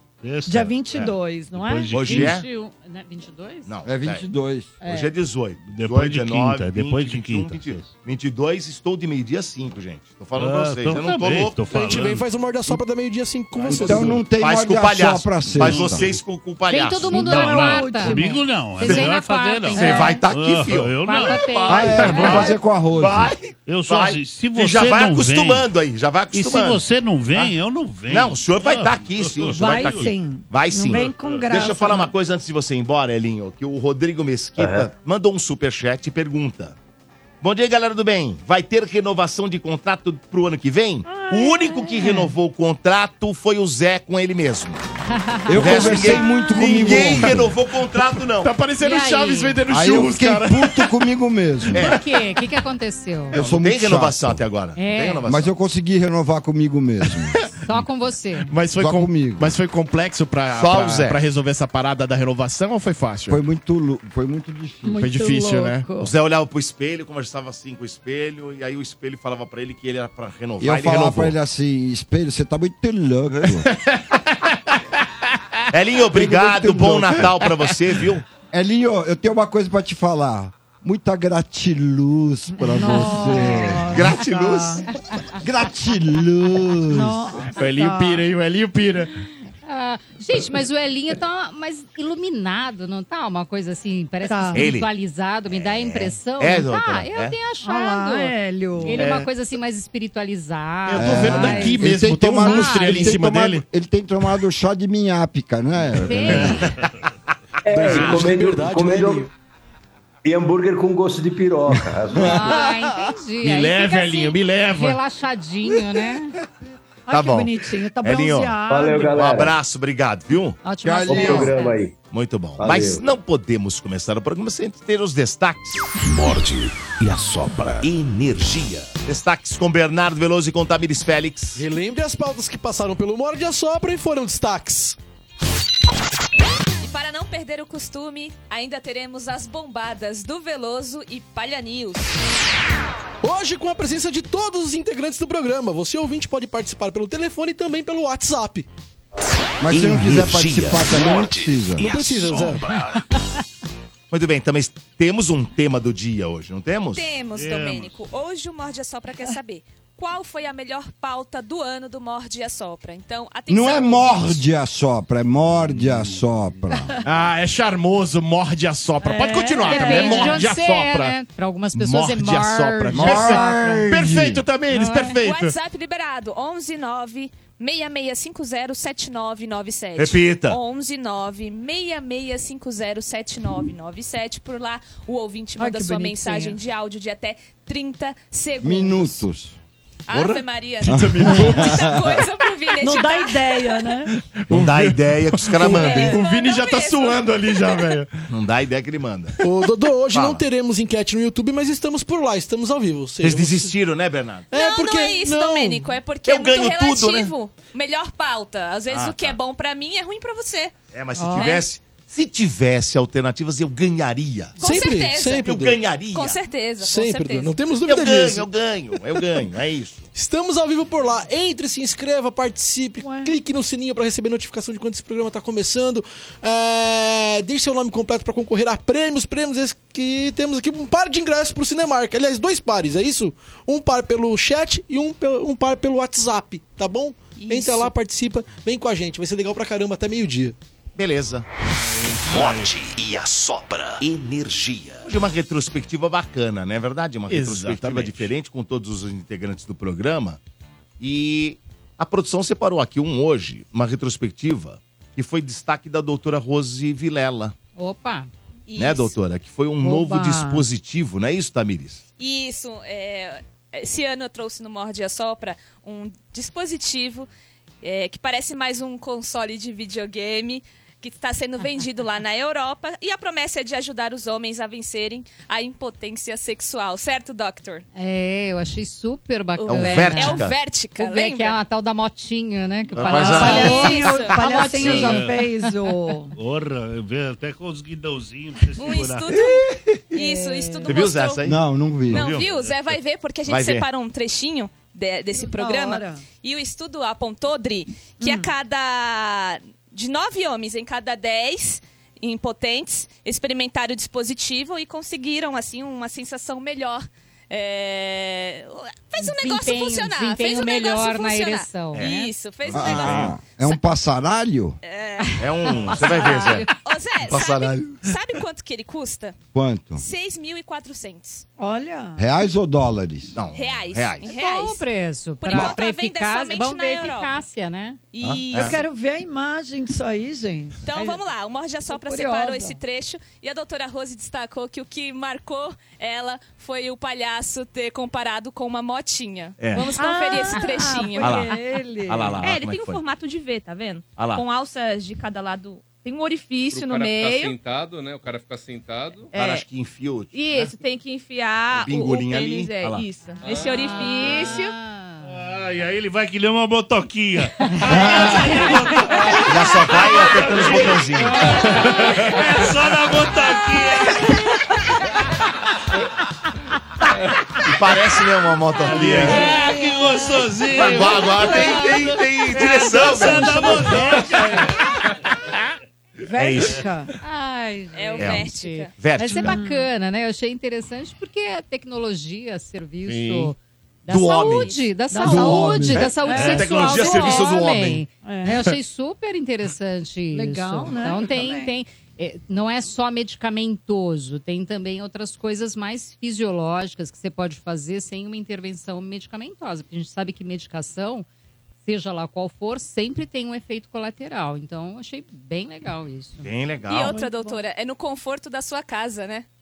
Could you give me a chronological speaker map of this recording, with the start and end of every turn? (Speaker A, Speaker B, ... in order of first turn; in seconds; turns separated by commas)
Speaker A: 0.2-2.4, Speaker B: 0.5-1.9, Speaker C: 1.7-3.7, Speaker D: 1.9-2.4, Speaker D: 3.6-4.2, Speaker E: 3.8-4.8, Speaker B: 4.8-5.1, Speaker D: 4.8-11.7, Speaker A: 5.7-8.0, Speaker A: 10.4-12.3, Speaker F: 11.7-14.2, Speaker D: 13.6-17.2, Speaker E: 13.7-16.1, Speaker A: 13.8-14.2, Speaker A: 15.6-16.1, Speaker C: 16.7-20.2, Speaker A: 17.1-22.5, Speaker B: 17.1-18.5, Speaker D: 18.8-19.1, Speaker D: 19.8-27.5, Speaker B: 19.8-20.2, Speaker C: 21.0-22.5, Speaker E: 21.7-23.4, Speaker A: 23.6-25.7, Speaker A: 26.3-30.1, Speaker D: 28.1-36.8, Speaker B: 29.5-32.1, Speaker A: 30.9-31.5, Speaker G: 34.6-34.9, Speaker D: 37.4-44.8, Speaker B: 41.1-42.1, Speaker C: 45.1-46.2, Speaker E: 45.5-47.6, Speaker D: 45.5-48.5, Speaker H: 48.0-50.9, Speaker C: 48.8-49.6, Speaker E: 49.7-51.9, Speaker C: 51.7-53.4, Speaker E: 53.3-54.4, Speaker D: 53.3-55.5, Speaker C: 54.8-55.2, Speaker E: 55.3-57.4, Speaker C: 57.6-58.5, Speaker H: 58.5-63.4, Speaker E: 58.8-59.5, Speaker D: 60.5-61.2, Speaker E: 63.3-65.0, Speaker B: 64.8-66.1, Speaker H: 65.0-65.9, Speaker D: 65.9-71.3, Speaker E: 70.6-73.7, Speaker D: 75.7-78.2, Speaker E: 76.1-77.4, Speaker E: 78.5-84.2, Speaker B: 82.5-84.9, Speaker D: 83.8-84.8, Speaker E: 85.4-87.2, Speaker B: 86.9-88.2, Speaker H: 87.5-89.1, Speaker C: 89.7-101.8, Speaker B: 94.2-94.7, Speaker D: 94.5-94.9, Speaker D: 95.5-97.4, Speaker B: 97.6-99.1, Speaker H: 99.0-99.3, Speaker H: 100.9-103.6, Speaker E: 100.9-106.7, Speaker C: 102.4-103.2, Speaker C: 106.0-106.7, Speaker G: 107.7-109.3, Speaker F: 107.7-109.3, Speaker G: 110.2-112.6, Speaker E: 111.8-112.5, Speaker C: 112.2-116.4, Speaker H: 113.4-115.0, Speaker B: 117.1-119.2, Speaker D: 117.1-120.6, Speaker G: 118.7-119.6, Speaker C: 120.6-121.8, Speaker E: 120.8-121.5, Speaker G: 121.1-122.0, Speaker D: 122.1-125.8, Speaker G: 122.6-123.1, Speaker I: 126.0-128.0, Speaker D: 127.8-131.6, Speaker F: 131.5-135.0, Speaker J: 136.8-142.1, Speaker F: 143.2-148.7, Speaker E: 149.6-151.9, Speaker I: 149.7-153.1, Speaker F: 151.8-152.7, Speaker D: 154.1-157.1, Speaker J: 156.9-164.4, Speaker A: 157.3-158.0, Speaker E: 163.5-166.9, Speaker A: 165.7-166.1, Speaker H: 167.0-171.2, Speaker B: 169.0-170.3, Speaker C: 169.6-173.8, Speaker H: 171.8-175.5, Speaker E: 172.9-174.4, Speaker C: 174.7-175.2, Speaker J: 175.1-189.2, Speaker D: 180.0-180.6, Speaker B: 185.6-186.6, Speaker E: 188.6-189.6, Speaker J: 190.1-193.5, Speaker E: 190.8-192.2, Speaker H: 190.9-191.8, Speaker B: 192.8-194.1, Speaker H: 194.5-198.3, Speaker D: 194.5-196.2, Speaker J: 195.6-197.9, Speaker D: 198.3-199.4, Speaker F: 199.4-203.7, Speaker D: 200.1-200.4, Speaker D: 203.2-204.5, Speaker F: 204.5-205.9, Speaker J: 204.5-210.7, Speaker D: 206.3-207.3, Speaker D: 208.9-209.4, Speaker D: 210.9-214.6, Speaker B: 211.2-211.6, Speaker J: 211.4-211.7, Speaker J: 214.6-215.5, Speaker F: 214.6-215.8, Speaker D: 215.3-216.4, Speaker J: 216.1-217.6, Speaker F: 216.8-218.5, Speaker D: 217.8-220.1, Speaker F: 220.1-240.6, Speaker B: 223.0-223.3, Speaker J: 237.4-237.9, Speaker D: 241.0-241.5, Speaker I: 242.2-245.0, Speaker D: 244.0-250.4, Speaker H: 247.3-248.3, Speaker D: 251.0-257.5, Speaker C: 257.8-258.3, Speaker J: 258.7-259.1, Speaker D: 258.8-262.0, Speaker B: 259.8-260.7, Speaker J: 262.2-267.3, Speaker J: 267.8-277.9, Speaker C: 277.9-280.5, Speaker J: 279.6-281.6, Speaker D: 279.7-280.6, Speaker C: 281.0-285.3, Speaker D: 282.9-285.2, Speaker J: 283.1-284.7, Speaker B: 283.2-286.4, Speaker A: 285.0-285.5, Speaker A: 286.3-289.4, Speaker J: 288.8-291.4, Speaker D: 289.3-290.2, Speaker B: 290.1-291.0, Speaker D: 290.9-292.5, Speaker E: 291.4-292.3, Speaker J: 292.1-313.8, Speaker D: 293.5-293.9, Speaker B: 295.3-296.2, Speaker B: 298.2-298.5, Speaker C: 309.2-312.3, Speaker D: 312.7-313.3, Speaker E: 312.7-314.8, Speaker J: 314.8-319.4, Speaker D: 315.4-316.7, Speaker C: 315.9-316.7, Speaker D: 317.2-318.1, Speaker E: 319.5-320.0, Speaker J: 320.0-321.4, Speaker B: 321.6-322.2, Speaker E: 322.2-323.4, Speaker D: 323.3-324.3, Speaker J: 323.5-324.8, Speaker C: 324.3-328.0, Speaker J: 325.4-327.3, Speaker J: 328.1-328.8, Speaker D: 328.2-328.8, Speaker B: 328.6-331.2, Speaker J: 330.9-341.5, Speaker B: 331.9-332.8, Speaker D: 339.6-340.0, Speaker B: 339.9-342.4, Speaker D: 341.2-343.0, Speaker K: 342.4-347.5, Speaker D: 344.2-344.4, Speaker L: 346.7-349.3, Speaker J: 346.7-347.5, Speaker D: 349.3-350.7, Speaker K: 349.4-349.6, Speaker K: 350.3-354.3, Speaker D: 351.7-353.1, Speaker J: 351.9-354.7, Speaker L: 353.4-353.7, Speaker C: 353.8-355.4, Speaker A: 355.2-364.5, Speaker C: 357.6-357.9, Speaker E: 357.9-358.3, Speaker J: 358.0-358.7, Speaker D: 359.5-361.5, Speaker D: 367.6-369.6, Speaker A: 368.9-374.8, Speaker D: 370.7-374.2, Speaker C: 373.6-374.2, Speaker B: 376.3-377.1, Speaker D: 376.4-376.9, Speaker C: 377.2-401.3, Speaker J: 377.9-378.9, Speaker D: 378.2-379.6, Speaker B: 379.4-379.9, Speaker D: 384.1-384.8, Speaker B: 385.1-387.5, Speaker E: 385.2-386.1, Speaker D: 385.9-388.1, Speaker B: 388.2-388.6, Speaker B: 390.3-391.7, Speaker C: 401.9-406.5, Speaker D: 406.4-407.2, Speaker J: 406.9-409.5, Speaker B: 407.1-407.6